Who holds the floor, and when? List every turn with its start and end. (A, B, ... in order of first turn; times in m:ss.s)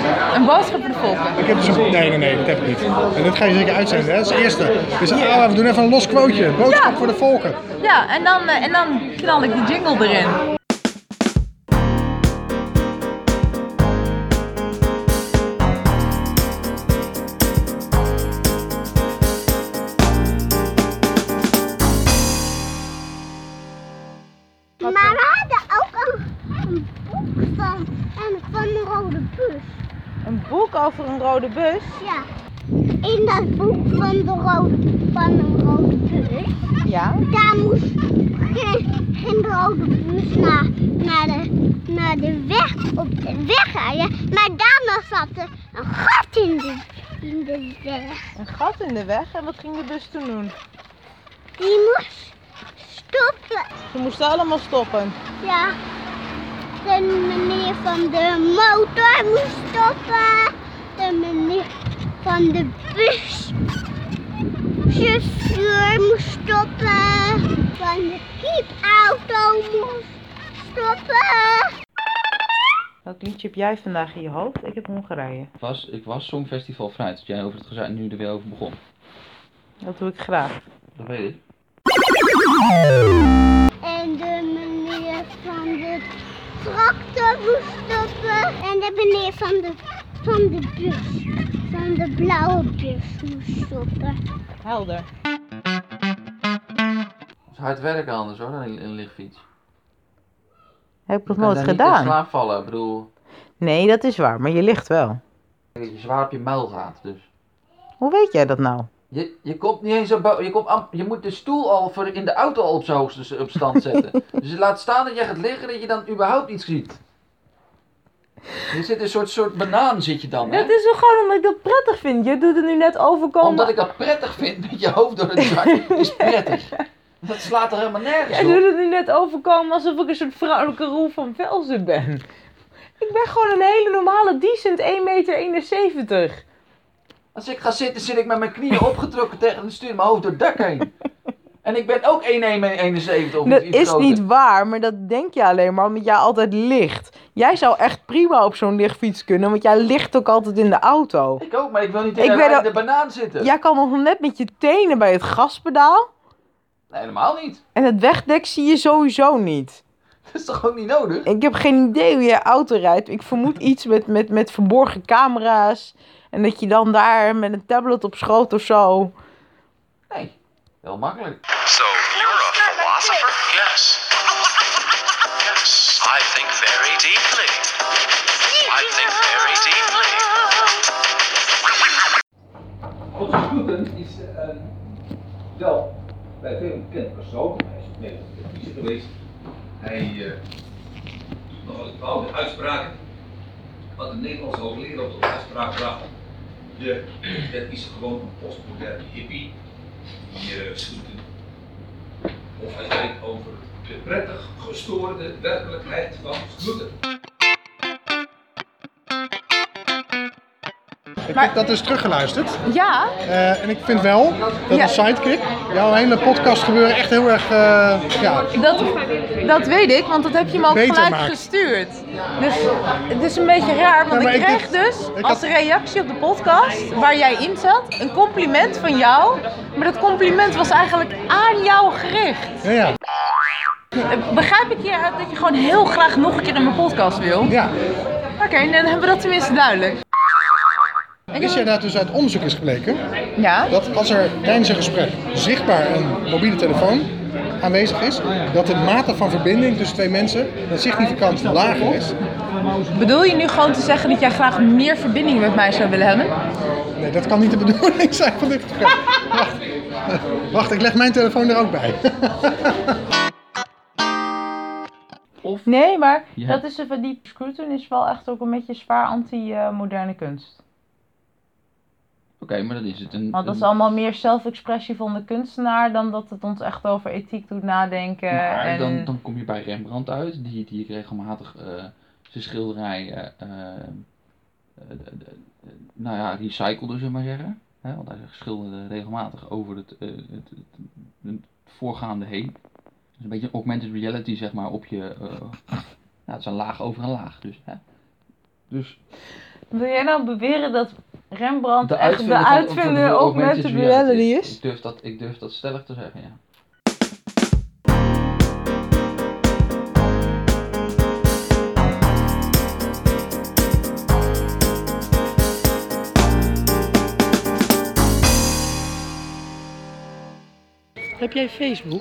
0:00.3-0:01.4 A
0:01.4-0:07.6 B
0:06.6-0:07.1 A
0:07.8-0:10.4 A
0:24.8-0:29.8 C
0:24.8-0:25.2 A
0:30.2-0:32.0 A
0:32.0-0:32.3 C
0:33.0-0:36.7 C
0:36.8-0:37.2 A
0:37.3-0:48.2 C
0:48.4-0:50.5 A
0:51.6-0:53.7 C
0:53.9-0:55.2 A
0:55.4-0:55.7 C
0:56.8-1:01.7 C
1:02.2-1:03.5 C
1:04.9-1:11.7 C
1:13.0-1:15.5 A
1:15.6-1:18.8 D
1:19.8-1:20.6 A
1:21.0-1:21.4 D
1:23.8-1:34.2 C
1:34.6-1:35.1 A
1:37.5-1:39.4 D
1:41.1-1:42.2 A
1:41.3-1:43.1 D
1:43.6-1:45.2 A
1:45.8-1:47.3 D
1:48.0-1:48.9 A
1:49.1-1:57.0 D
1:58.7-2:00.7 D
2:00.4-2:03.7 A
2:03.4-2:08.6 D
2:05.4-2:06.8 A
2:08.2-2:12.2 A
2:13.0-2:16.4 A
2:17.3-2:20.9 D
2:21.6-2:24.2 D
2:23.4-2:31.4 A
2:31.4-2:33.5 D
2:32.2-2:32.7 A
2:33.4-2:36.1 A
2:36.9-2:37.6 D
2:37.7-2:39.8 A
2:40.3-2:41.3 D
2:41.2-2:49.1 A
2:50.1-2:51.4 D
2:51.6-2:54.0 E
2:52.3-2:53.2 C
2:55.4-2:57.7 E
2:58.6-3:00.3 E
3:03.2-3:03.9 F
3:03.2-3:04.2 D
3:05.6-3:05.8 F
3:06.4-3:08.7 F
3:06.5-3:07.6 D
3:08.7-3:09.0 D
3:09.8-3:10.3 D
3:11.6-3:12.9 F
3:11.7-3:12.9 D
3:14.0-3:15.8 D
3:14.5-3:16.0 F
3:17.5-3:18.8 D
3:18.3-3:19.5 F
3:20.3-3:20.7 F
3:20.7-3:21.2 D
3:22.6-3:26.8 D
3:23.2-3:23.6 F
3:24.2-3:25.2 F
3:26.1-3:26.4 F
3:31.3-3:32.6 B
3:32.6-3:33.1 A
3:33.2-3:38.5 B
3:38.5-3:52.5 A
3:40.4-3:41.4 B
3:44.1-3:45.4 B
3:52.6-3:52.9 B
3:54.0-3:57.6 A
3:57.5-3:57.7 B
3:58.4-4:00.0 A
4:01.3-4:01.7 A
4:01.4-4:03.0 B
4:03.4-4:03.7 A
4:03.7-4:07.1 B
4:07.6-4:12.2 B
4:12.9-4:16.3 A
4:17.0-4:19.6 B
4:20.1-4:22.7 B
4:25.4-4:25.7 D
4:25.6-4:30.6 A
4:26.4-4:26.6 D
4:32.4-4:33.7 D
4:33.3-4:39.1 A
4:38.3-4:44.0 D
4:44.8-4:52.6 D
4:53.2-4:55.6 D
4:56.3-4:57.8 D
4:58.7-4:59.0 D
4:59.7-5:04.6 A
5:01.8-5:06.4 D
5:21.4-5:21.7 A